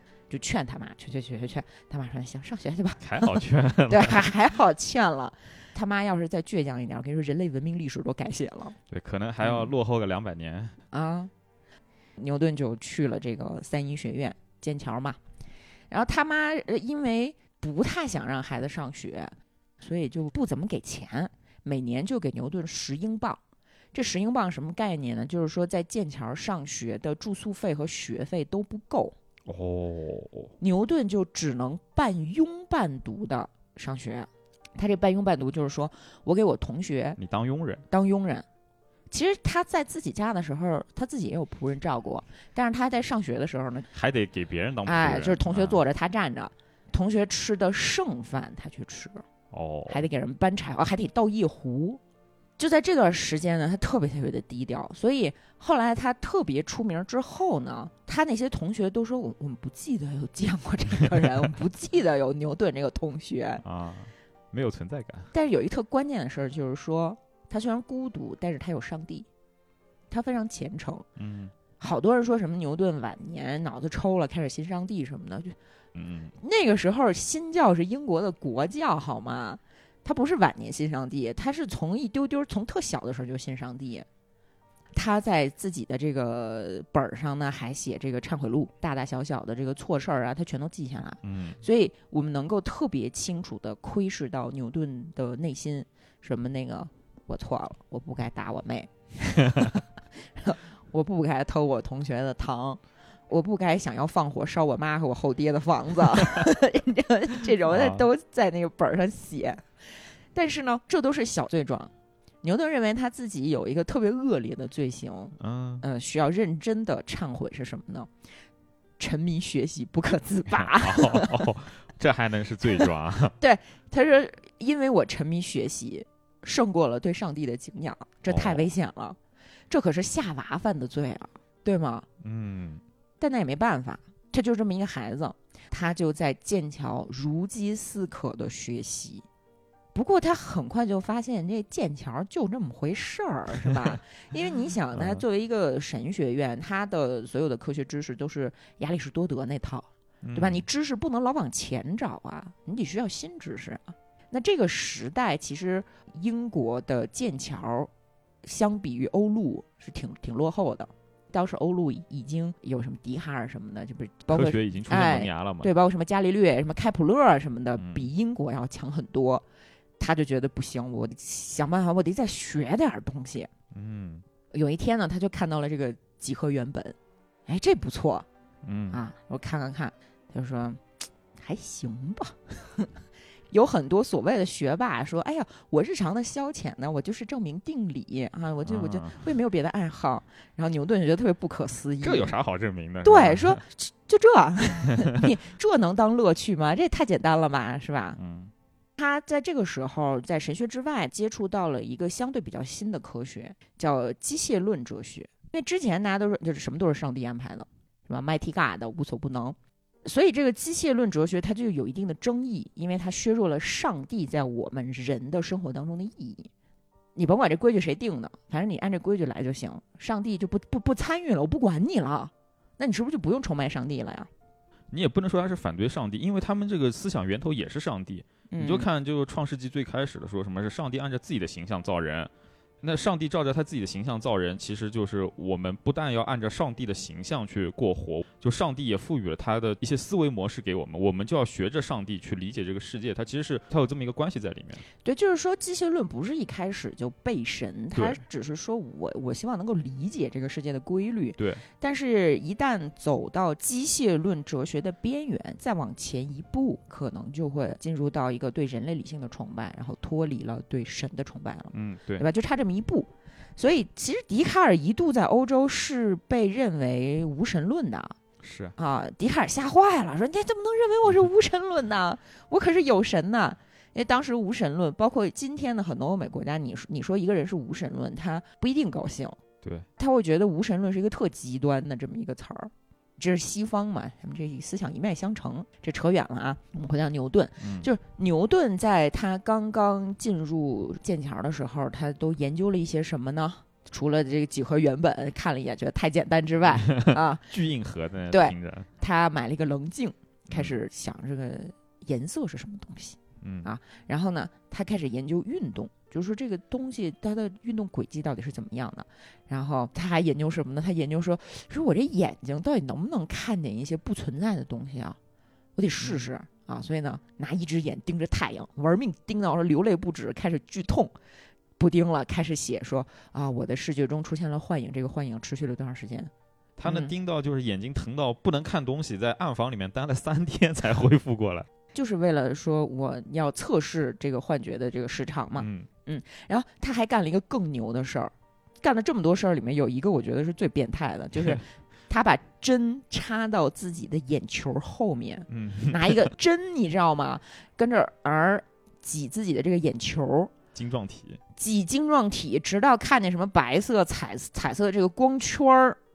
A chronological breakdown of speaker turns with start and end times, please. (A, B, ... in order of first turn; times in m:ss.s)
0:00.3-0:08.8 A
0:03.0-0:04.3 B
0:08.9-0:10.8 B
0:09.4-0:09.7 A
0:10.9-0:11.3 A
0:12.2-0:15.2 A
0:15.9-0:23.4 A
0:23.9-0:29.1 A
0:29.4-0:30.5 B
0:30.6-0:37.2 A
0:37.2-0:37.8 B
0:37.9-0:38.4 A
0:39.1-0:43.9 A
0:43.9-0:45.8 B
0:44.8-0:49.2 A
0:49.5-0:50.0 B
0:49.9-0:52.0 A
0:52.6-1:03.6 A
1:03.6-1:05.3 B
1:05.3-1:09.3 A
1:10.1-1:11.0 A
1:11.2-1:11.5 B
1:11.8-1:15.6 A
1:15.9-1:16.3 B
1:16.4-1:24.0 A
1:24.9-1:49.7 A
1:31.2-1:31.6 B
1:47.7-1:48.1 B
1:50.3-1:51.9 A
1:52.4-1:58.1 A
1:55.4-1:55.8 B
1:59.0-2:01.5 A
2:00.5-2:03.3 B
2:03.4-2:09.2 A
2:08.3-2:08.7 B
2:09.7-2:12.0 A
2:12.2-2:12.8 B
2:13.2-2:19.2 A
2:19.9-2:37.9 A
2:24.9-2:25.2 B
2:30.2-2:30.6 B
2:38.4-2:49.4 A
2:44.3-2:45.7 B
2:47.8-2:48.1 B
2:50.0-2:53.5 A
2:53.7-2:54.2 B
2:54.5-2:56.9 A
2:57.5-2:58.2 A
2:58.6-2:59.0 B
2:58.9-3:00.8 A
3:01.4-3:02.9 A
3:03.5-3:12.3 A
3:08.6-3:09.2 B
3:12.0-3:13.6 B
3:13.0-3:18.2 A
3:18.2-3:18.5 B
3:19.0-3:36.5 A
3:37.2-3:44.3 A
3:44.9-3:52.3 B
3:48.5-3:48.9 A
3:52.8-4:04.8 B
4:05.0-4:28.2 A
4:07.9-4:08.2 B
4:11.4-4:11.6 B
4:21.7-4:22.2 B
4:28.4-4:28.7 B
4:28.8-4:39.4 A
4:39.6-4:39.9 B
4:40.0-4:57.5 A
4:47.6-4:47.9 B
4:56.7-4:58.9 B
4:58.3-5:15.2 A
5:03.4-5:03.7 B
5:15.8-5:21.1 A
5:16.0-5:16.3 B
5:21.8-5:26.3 A
5:26.8-5:31.7 B
5:26.8-5:27.1 A
5:31.9-5:50.5 A
5:35.6-5:35.9 B
5:41.4-5:41.6 B
5:45.5-5:46.3 B
5:50.7-5:51.4 B
5:51.6-5:56.0 A